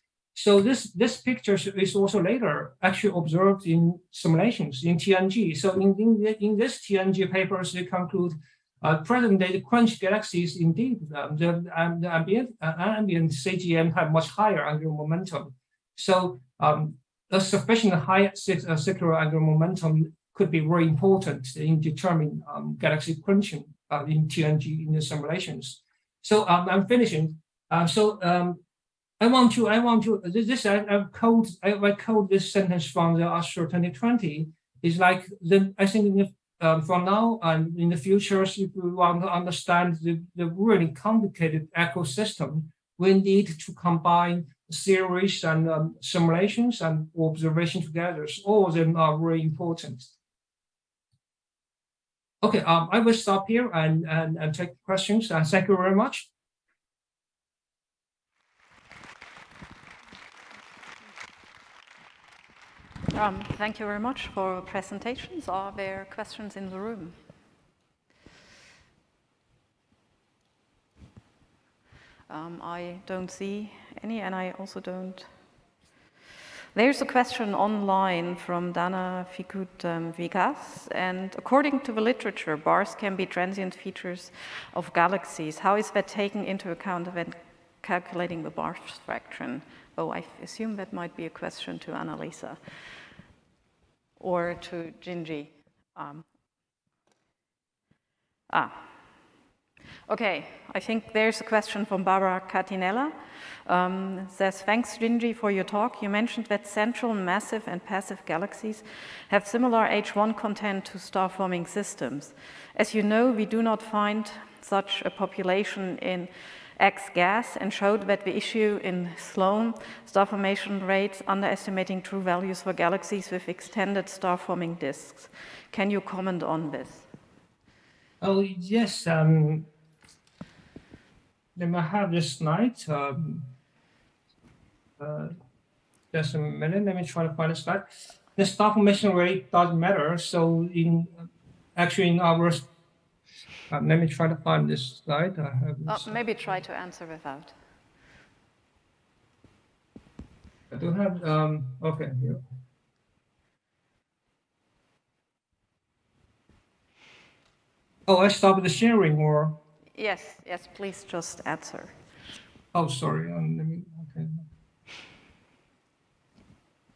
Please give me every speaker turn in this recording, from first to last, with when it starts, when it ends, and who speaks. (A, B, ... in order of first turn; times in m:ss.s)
0:00.3-0:28.6 A
0:29.2-0:50.1 A
0:52.4-0:56.3 A
1:03.1-1:07.2 B
1:12.3-1:15.3 B
1:16.7-1:32.6 B
1:34.2-1:36.2 B
1:38.5-1:38.9 B
1:40.1-1:43.1 B
1:43.6-2:07.1 B
2:08.2-2:09.7 A
2:11.6-2:13.5 A
2:15.0-2:15.3 A
2:16.1-2:21.1 A
2:21.8-2:22.7 A
2:23.7-2:26.1 A
2:25.8-2:27.5 B
2:30.7-2:32.4 A
2:38.1-2:39.6 A
2:39.9-2:42.0 B
2:42.7-2:44.4 A